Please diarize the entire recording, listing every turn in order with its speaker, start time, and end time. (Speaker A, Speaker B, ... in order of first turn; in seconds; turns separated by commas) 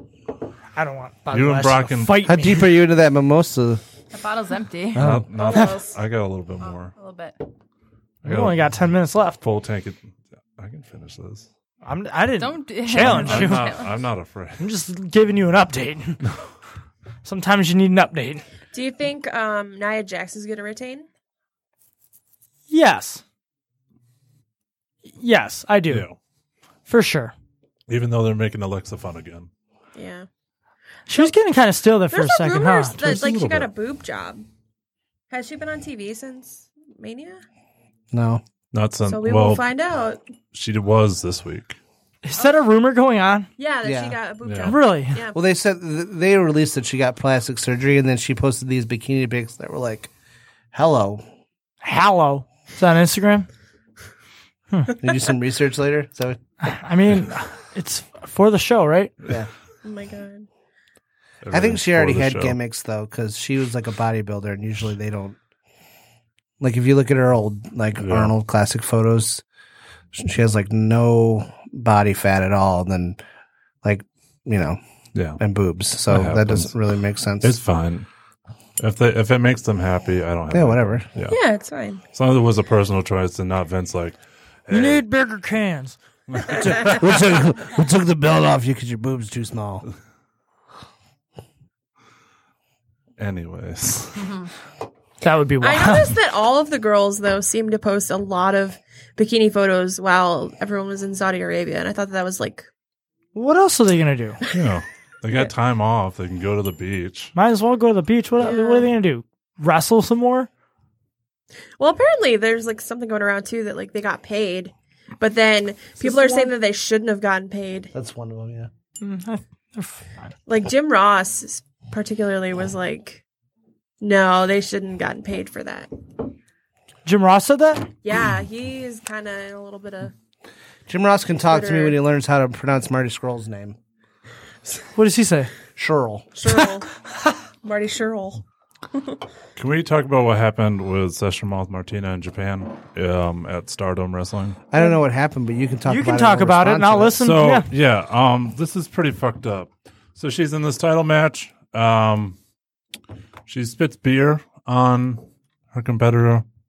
Speaker A: 0.7-2.7, Speaker B: 1.3-2.2, Speaker C: 2.2-3.8, Speaker D: 4.1-6.0, Speaker C: 4.9-5.2, Speaker B: 4.9-6.9, Speaker D: 6.6-7.3, Speaker B: 8.2-8.7, Speaker A: 8.2-9.4, Speaker B: 9.4-10.0, Speaker B: 10.6-11.5, Speaker A: 11.8-13.8, Speaker D: 12.4-14.0, Speaker B: 13.0-14.7, Speaker A: 14.6-16.2, Speaker A: 17.2-18.4, Speaker E: 18.7-21.1, Speaker A: 22.7-23.2, Speaker A: 25.0-26.1, Speaker B: 25.9-26.1, Speaker A: 26.9-27.3, Speaker B: 27.9-29.5, Speaker E: 29.9-30.3, Speaker A: 31.1-33.2, Speaker E: 32.1-34.5, Speaker B: 33.0-33.7, Speaker E: 35.3-37.4, Speaker C: 38.1-38.4, Speaker B: 38.7-39.6, Speaker E: 39.0-40.2, Speaker B: 40.5-41.8, Speaker A: 42.2-43.5, Speaker E: 43.6-45.4, Speaker C: 43.8-44.2, Speaker B: 44.4-44.7, Speaker A: 44.6-45.2, Speaker C: 45.3-50.1, Speaker C: 50.7-51.2, Speaker A: 51.8-53.5, Speaker C: 55.0-56.4, Speaker A: 56.6-59.1, Speaker E: 59.8-60.5, Speaker B: 61.4-62.6, Speaker C: 61.5-65.4, Speaker C: 66.6-69.4, Speaker B: 68.0-68.3, Speaker C: 70.1-73.2, Speaker C: 73.8-74.8, Speaker B: 75.1-75.4, Speaker C: 75.4-77.6, Speaker B: 76.0-76.7, Speaker B: 77.4-78.1, Speaker B: 78.8-81.4, Speaker C: 80.5-81.1, Speaker E: 81.3-82.0, Speaker B: 82.1-85.0, Speaker A: 84.7-86.0, Speaker B: 86.3-87.1, Speaker C: 87.0-89.8, Speaker B: 93.2-94.3, Speaker D: 94.2-94.5, Speaker A: 95.2-96.2, Speaker E: 95.6-102.7, Speaker A: 103.3-104.4, Speaker B: 104.5-107.3, Speaker A: 107.3-110.5, Speaker E: 108.4-108.9, Speaker E: 111.8-117.9, Speaker A: 116.0-116.5, Speaker C: 117.9-118.7, Speaker A: 119.0-120.3, Speaker E: 120.5-123.2, Speaker E: 124.0-125.9, Speaker A: 127.0-127.9, Speaker E: 128.0-130.1, Speaker C: 130.9-133.8, Speaker E: 131.5-131.9, Speaker A: 134.9-135.5, Speaker C: 135.8-136.3, Speaker E: 136.3-136.9, Speaker E: 137.6-139.2, Speaker B: 139.6-144.6, Speaker C: 144.7-147.2, Speaker A: 145.8-147.7, Speaker B: 147.2-152.4, Speaker B: 153.5-156.4